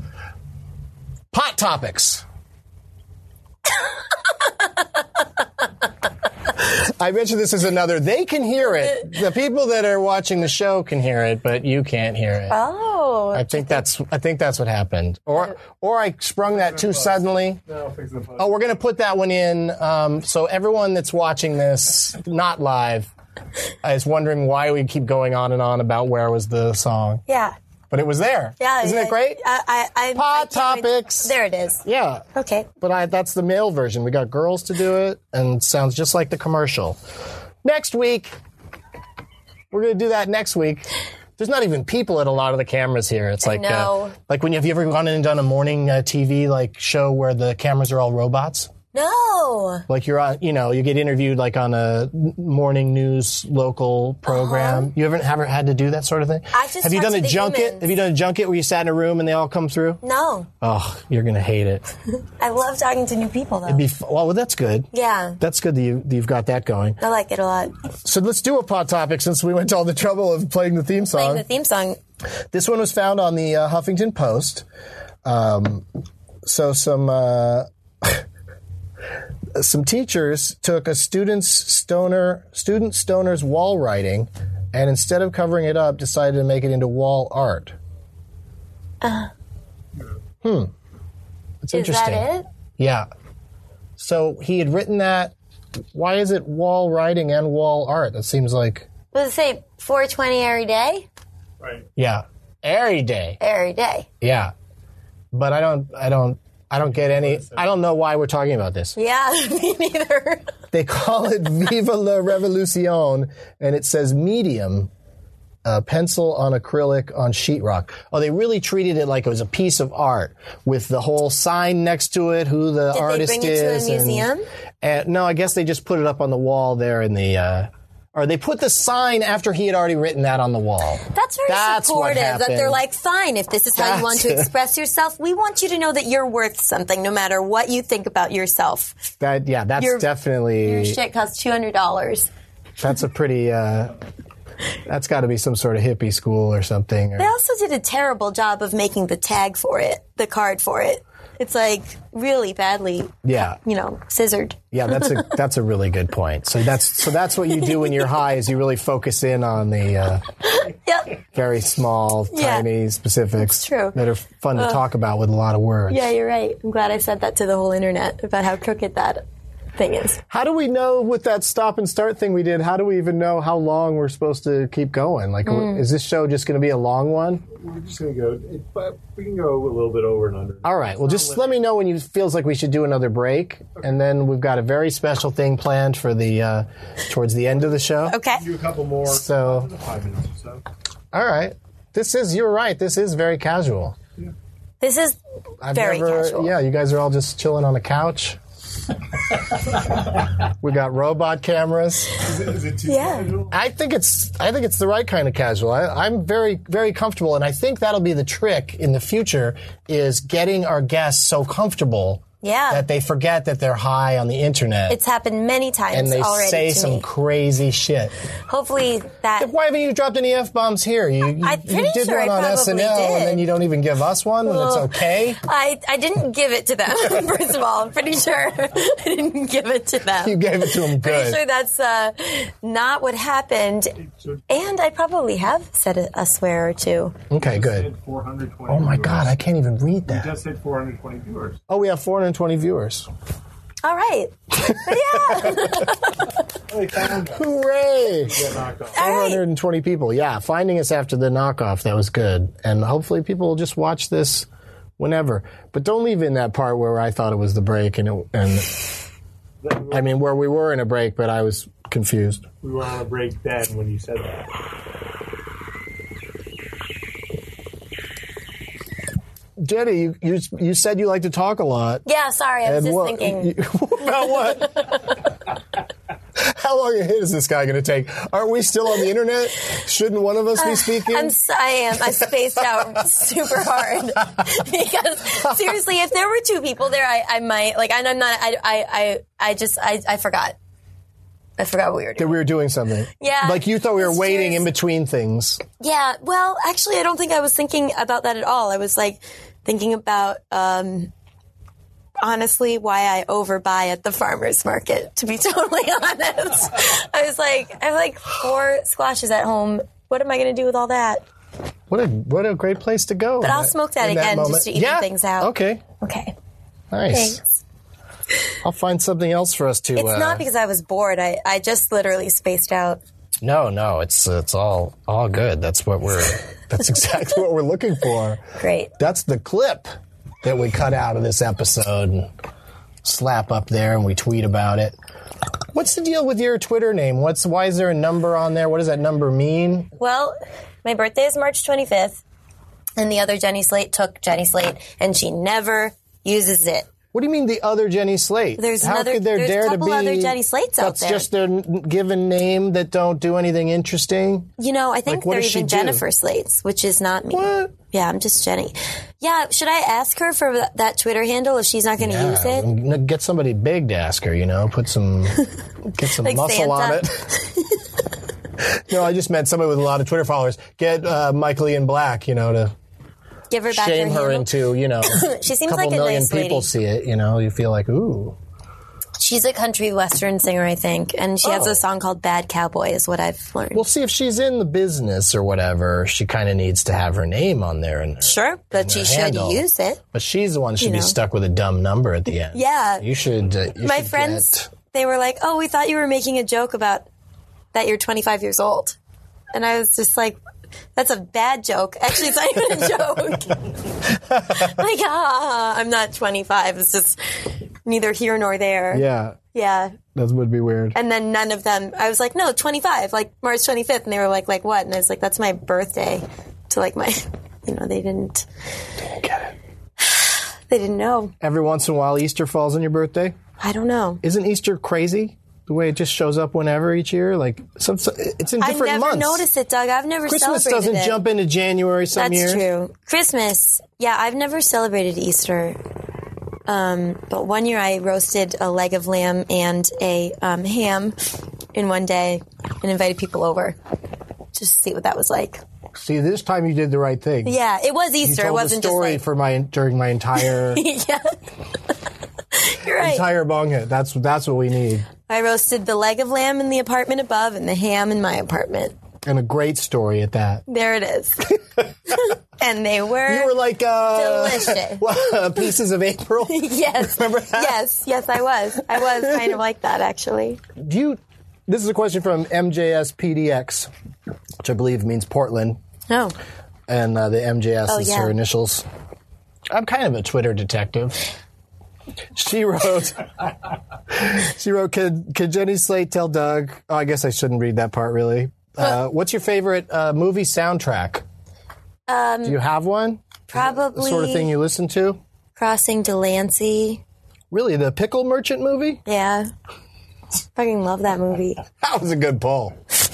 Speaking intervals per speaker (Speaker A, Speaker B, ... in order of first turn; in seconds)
Speaker A: 1.3-2.2, 6.7-12.6, 13.3-17.6, 18.4-23.1, 23.8-27.2, 27.9-29.4, 30.1-32.3, 32.8-37.0, 37.6-38.4, 39.7-48.7, 49.9-60.0, 60.6-61.9, 63.7-67.0, 68.0-71.5, 72.5-74.7, 75.2-75.9, 76.4-78.2, 79.5-87.8, 90.4-90.7, 91.6-93.1, 94.0-95.3, 95.9-98.9, 102.0-103.4, 104.2-104.5, 105.3-109.0, 110.7-114.9, 115.7-124.3, 124.8-132.8, 133.8-134.5, 139.2-141.0, 142.8-144.0, 144.9-147.3, 153.2-153.6, 154.7-160.2, 161.2-166.1, 170.3-177.4, 180.6-188.2, 189.1-189.7, 191.1-194.0, 195.6-198.4, 200.6-202.2, 203.5-215.0, 215.9-218.1, 219.4-225.4, 230.2-231.4, 237.3-237.9, 238.7-240.3, 241.7-243.1, 244.6-245.9, 247.3-254.5, 255.0-258.9, 259.9-262.4, 269.6-272.0, 272.6-275.1, 276.4-281.3, 292.2-295.6, 311.9-315.8, 316.9-317.4, 318.6-320.4, 323.4-328.4, 329.0-329.9, 330.4-332.3, 333.0-334.9, 335.7-339.9, 347.1-354.5, 355.1-356.0, 357.3-357.7, 362.0-365.4, 365.9-367.2, 368.6-372.8, 373.7-378.4, 381.4-381.8, 383.7-394.7, 404.3-404.7, 408.9-409.4, 410.1-410.9, 419.1-419.5, 421.4-423.4, 424.2-429.4, 430.3-432.6, 445.9-447.6, 448.2-450.8, 452.9-455.1, 459.2-460.6, 461.5-462.1, 463.3-467.8, 469.2-469.6, 470.8-473.9, 474.6-475.8, 476.9-478.9, 479.7-481.2, 482.4-483.5, 484.1-491.2, 492.4-495.2, 497.5-499.0, 501.8-502.8
Speaker B: 12.5-13.8, 27.3-27.6, 28.6-31.8, 32.4-32.7, 43.4-44.1, 48.9-49.9, 54.3-54.9, 56.5-57.9, 60.0-60.5, 62.4-63.8, 64.9-65.4, 67.0-67.7, 71.0-72.0, 89.0-89.3, 91.7-92.5, 99.1-101.1, 103.4-104.1, 109.0-110.5, 122.9-124.5, 131.1-139.0, 139.8-140.1, 140.6-142.3, 147.2-155.3, 160.4-161.2, 162.3-162.7, 163.5-164.0, 165.9-169.2, 169.8-170.2, 175.5-175.8, 188.1-188.4, 194.8-195.2, 195.7-196.5, 202.9-203.3, 212.4-212.9, 214.9-217.1, 218.5-219.5, 221.4-223.4, 224.4-234.0, 234.5-237.2, 243.8-246.3, 248.9-249.4, 272.1-273.5, 274.2-275.0, 280.6-290.6, 291.6-292.4, 293.2-294.7, 295.8-301.1, 302.2-311.2, 313.4-316.4, 317.1-317.5, 320.0-323.0, 328.6-328.9, 340.0-342.2, 343.0-346.9, 348.6-351.3, 354.6-362.7, 366.2-367.8, 373.5-376.7, 379.2-383.9, 388.2-390.0, 390.8-391.2, 392.5-393.1, 393.8-397.1, 397.7-399.0, 399.5-400.4, 400.9-403.8, 404.5-407.2, 407.9-410.0, 410.9-418.5, 420.0-421.3, 423.6-424.2, 428.6-431.2, 432.1-435.8, 436.7-441.2, 441.7-443.8, 444.5-445.6, 447.4-449.2, 450.4-451.4, 452.6-453.2, 455.3-458.9, 460.7-461.5, 462.1-463.5, 464.1-465.1, 466.5-470.6, 476.1-476.4, 477.9-478.3, 492.1-492.6, 493.5-494.5, 495.6-497.0, 499.1-499.5, 500.6-501.6
Speaker C: 16.5-18.6, 101.6-101.9, 107.0-107.6, 177.5-181.7, 188.3-190.6, 202.2-203.6, 237.3-239.4, 240.1-241.6, 246.7-247.6, 248.1-249.1, 259.6-260.2, 262.6-264.5